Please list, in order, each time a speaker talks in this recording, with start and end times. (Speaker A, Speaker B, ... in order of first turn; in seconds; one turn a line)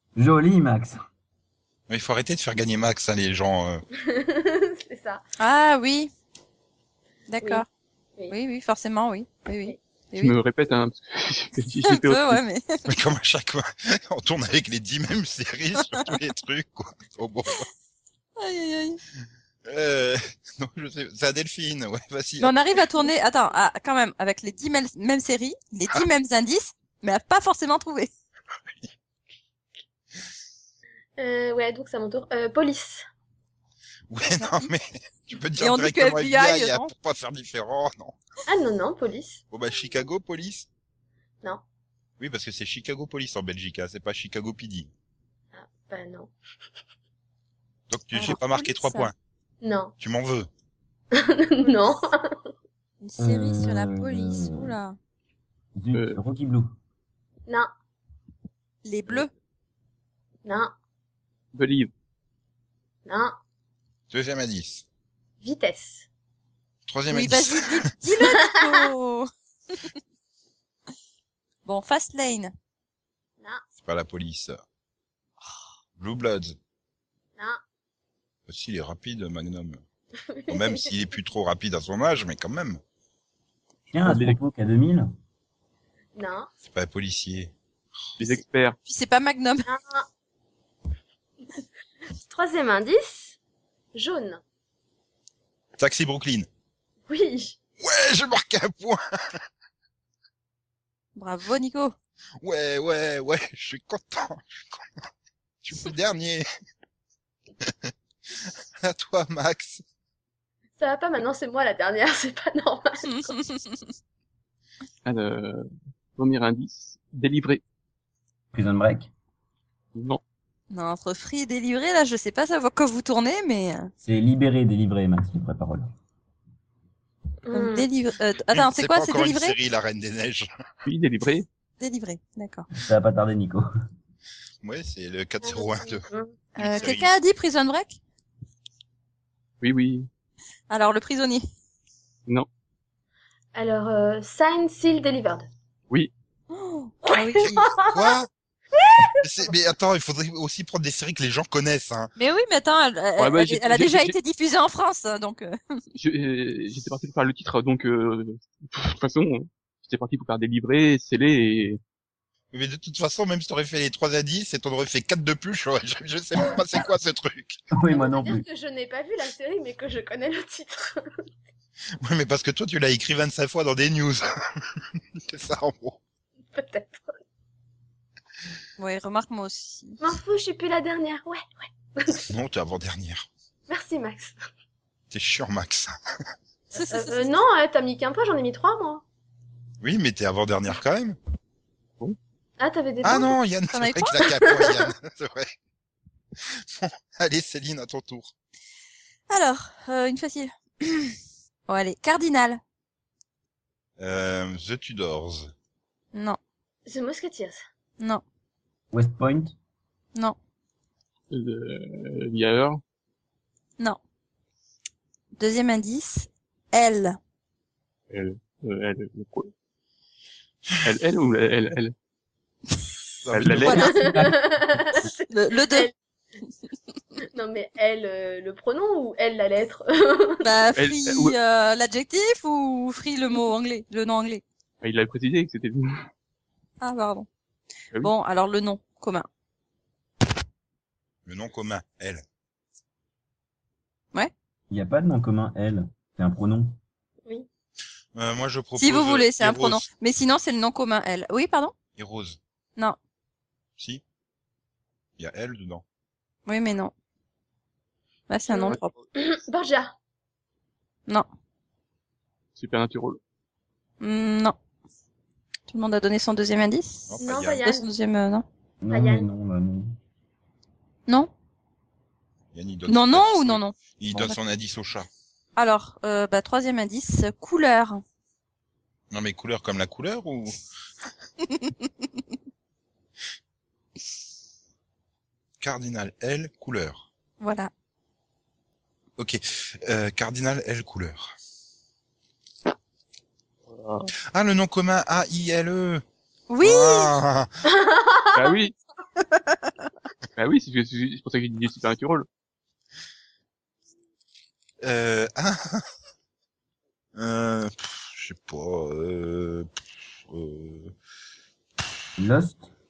Speaker A: 0.1-1.0
Speaker B: 1.9-3.8
Speaker C: 4.0-5.2
Speaker D: 5.4-6.1
Speaker D: 7.3-7.7
Speaker D: 8.3-10.3
Speaker E: 10.2-12.4
Speaker D: 11.8-12.9
Speaker B: 12.9-17.7
Speaker D: 18.4-19.0
Speaker B: 19.6-22.5
Speaker D: 22.4-28.1
Speaker C: 31.2-33.1
Speaker B: 34.1-38.2
Speaker D: 34.4-34.7
Speaker D: 35.6-36.9
Speaker C: 38.5-39.4
Speaker B: 39.5-40.7
Speaker B: 42.2-44.9
Speaker C: 45.5-46.3
Speaker B: 47.9-49.1
Speaker D: 48.1-49.1
Speaker C: 49.6-49.9
Speaker B: 50.0-50.5
Speaker C: 51.1-52.4
Speaker D: 53.0-55.0
Speaker A: 53.2-54.7
Speaker A: 55.8-56.7
Speaker E: 55.9-56.2
Speaker D: 58.8-59.3
Speaker C: 60.4-60.7
Speaker E: 61.5-61.9
Speaker C: 63.0-63.4
Speaker B: 64.1-64.8
Speaker C: 65.4-66.1
Speaker B: 66.9-67.9
Speaker D: 67.1-69.9
Speaker C: 68.2-68.9
Speaker D: 71.6-72.5
Speaker B: 73.8-74.6
Speaker B: 76.0-76.6
Speaker B: 78.5-79.8
Speaker C: 80.3-80.9
Speaker B: 80.5-82.8
Speaker A: 83.9-85.1
Speaker E: 84.0-84.4
Speaker C: 86.2-86.5
Speaker B: 86.6-87.5
Speaker E: 88.2-88.8
Speaker D: 88.9-89.7
Speaker C: 89.7-90.1
Speaker C: 92.2-93.4
Speaker C: 93.9-94.4
Speaker B: 95.8-96.5
Speaker C: 97.1-97.6
Speaker B: 97.8-99.4
Speaker D: 101.2-101.9
Speaker B: 102.4-104.9
Speaker B: 105.6-106.5
Speaker B: 107.6-109.8
Speaker C: 110.8-113.3
Speaker D: 113.0-113.9
Speaker E: 115.0-117.6
Speaker A: 118.5-119.1
Speaker E: 119.9-120.2
Speaker D: 120.7-123.9
Speaker A: 124.0-125.9
Speaker C: 127.5-127.9
Speaker D: 127.5-129.6
Speaker B: 128.5-130.5
Speaker E: 130.8-131.5
Speaker D: 131.8-132.7
Speaker A: 132.7-133.6
Speaker B: 134.6-137.1
Speaker C: 135.4-136.4
Speaker D: 136.6-138.0
Speaker E: 139.6-140.1
Speaker D: 140.7-141.4
Speaker C: 143.6-145.5
Speaker D: 146.5-147.7
Speaker C: 147.1-148.1
Speaker B: 147.8-148.3
Speaker C: 148.7-149.2
Speaker B: 149.2-152.1
Speaker D: 152.2-155.8
Speaker E: 153.2-154.2
Speaker E: 155.9-161.8
Speaker B: 162.5-167.6
Speaker A: 167.7-168.4
Speaker C: 167.9-171.2
Speaker B: 172.0-176.0
Speaker C: 176.5-177.2
Speaker D: 178.8-180.0
Speaker C: 180.0-182.3
Speaker B: 182.2-183.3
Speaker C: 183.7-184.4
Speaker B: 185.1-186.0
Speaker D: 186.7-187.4
Speaker C: 186.8-189.0
Speaker B: 189.8-191.2
Speaker C: 192.6-193.4
Speaker B: 193.0-195.5
Speaker D: 193.7-194.2
Speaker C: 194.2-194.9
Speaker B: 196.4-198.3
Speaker D: 199.3-201.2
Speaker D: 201.7-202.6
Speaker B: 204.0-205.5
Speaker C: 206.9-207.6
Speaker A: 208.9-209.6
Speaker E: 211.3-212.8
Speaker D: 215.4-217.2
Speaker E: 218.1-219.5
Speaker E: 220.8-221.9
Speaker B: 223.2-224.0
Speaker E: 223.3-224.1
Speaker D: 223.6-224.3
Speaker C: 223.7-225.9
Speaker D: 225.3-225.9
Speaker C: 227.3-230.6
Speaker D: 230.4-234.4
Speaker E: 230.8-231.4
Speaker E: 234.8-236.1
Speaker D: 236.8-237.3
Speaker D: 238.0-239.3
Speaker B: 241.2-242.2
Speaker A: 244.7-246.8
Speaker B: 248.1-249.8
Speaker D: 248.8-251.7
Speaker B: 251.9-252.4
Speaker B: 255.2-255.8
Speaker D: 256.4-256.9
Speaker D: 258.3-258.9
Speaker C: 258.5-259.9
Speaker E: 258.6-259.1
Speaker E: 262.6-263.2
Speaker D: 264.0-264.6
Speaker D: 265.7-268.4
Speaker B: 267.1-267.6
Speaker C: 267.2-267.9
Speaker A: 268.8-269.9
Speaker C: 268.9-269.3
Speaker B: 272.5-275.1
Speaker D: 272.9-274.4
Speaker D: 275.6-278.0
Speaker B: 279.1-280.6
Speaker B: 285.6-287.1
Speaker D: 287.4-287.7
Speaker B: 289.2-291.3
Speaker E: 293.7-294.1
Speaker B: 294.3-296.0
Speaker D: 296.5-297.1
Speaker B: 296.6-297.5
Speaker C: 297.7-298.4
Speaker E: 298.3-298.7
Speaker D: 299.3-299.7
Speaker E: 300.4-302.3
Speaker B: 304.8-305.9
Speaker B: 307.1-310.9
Speaker A: 312.2-312.7